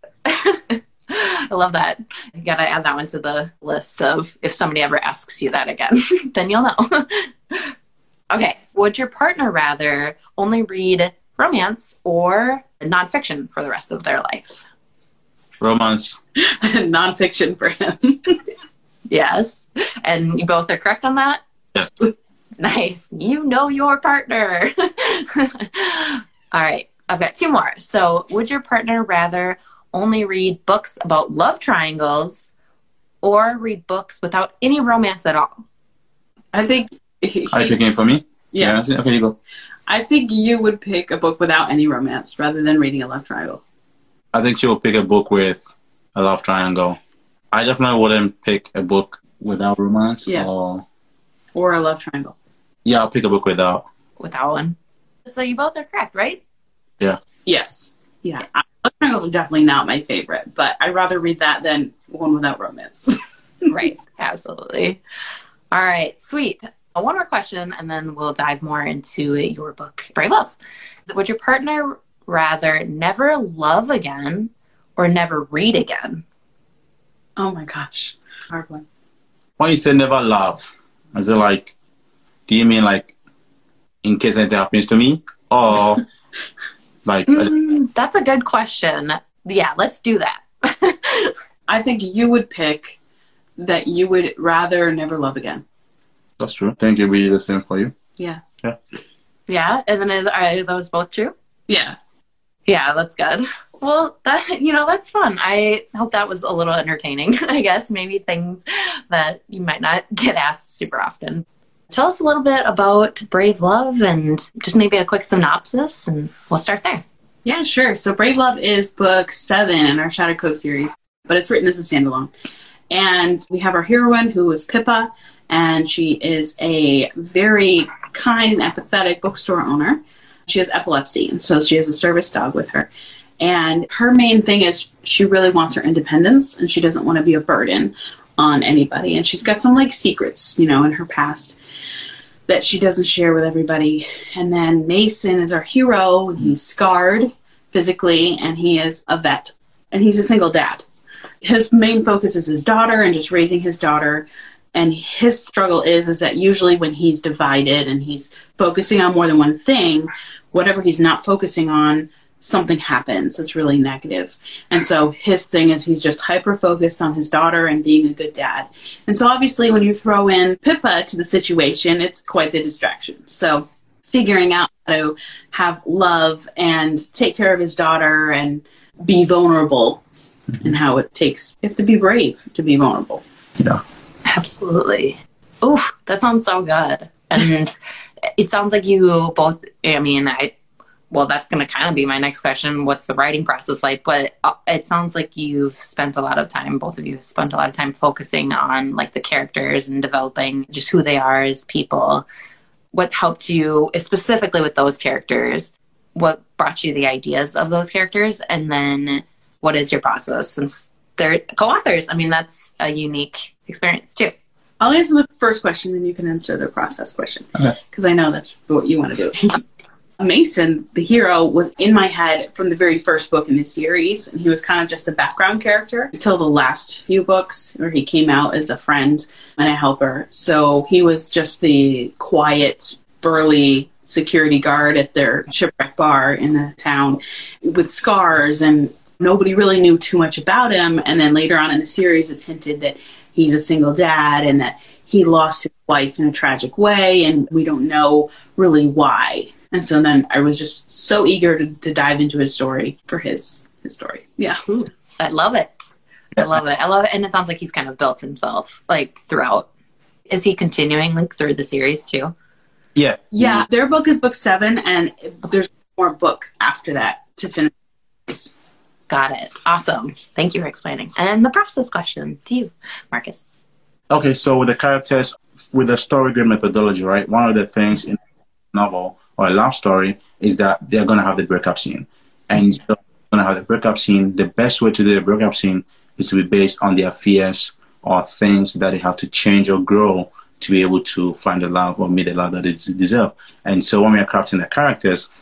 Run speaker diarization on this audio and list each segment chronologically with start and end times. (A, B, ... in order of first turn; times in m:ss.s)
0:00.2-0:07.7 A
0:08.3-0:14.6 A
0:15.6-0:16.2 B
0:16.4-0:18.4 C
0:19.1-0:21.4 A
0:22.6-0:32.5 A
0:33.2-0:35.6 A
0:36.5-0:37.8 C
0:37.5-0:39.4 B
0:39.9-0:43.6 C
0:44.3-0:45.6 B
0:46.2-0:47.0 B
0:47.5-0:50.9 B
0:51.6-0:52.4 C
0:52.8-0:53.8 B
0:54.2-0:56.4 A
0:57.5-1:03.7 C
1:03.7-1:05.0 A
1:05.7-1:10.6 A
1:11.1-1:16.2 A
1:17.4-1:18.8 C
1:19.6-1:21.7 B
1:22.5-1:23.1 B
1:24.0-1:26.0 B
1:27.0-1:27.5 B
1:27.3-1:31.3 A
1:31.7-1:33.0 C
1:33.6-1:35.6 C
1:36.4-1:38.0 B
1:38.2-1:38.4 C
1:39.5-1:41.3 A
1:41.7-1:42.0 C
1:42.7-1:57.0 A
1:57.4-2:02.3 C
2:02.9-2:12.9 C
2:13.4-2:21.6 C
2:22.5-2:30.8 C
2:31.4-3:00.0 C
3:00.6-3:03.2 C
3:04.3-3:10.5 A
3:11.1-3:22.2 A
3:22.9-3:34.3 A
3:34.8-3:39.6 C
3:40.2-4:14.6 C
4:14.7-4:15.7 A
4:16.4-4:19.7 A
4:20.3-4:22.3 A
4:23.0-4:23.7 B
4:23.4-4:27.7 C
4:28.3-4:28.5 C
4:29.1-4:33.4 A
4:34.1-4:38.2 B
4:38.7-4:55.3 B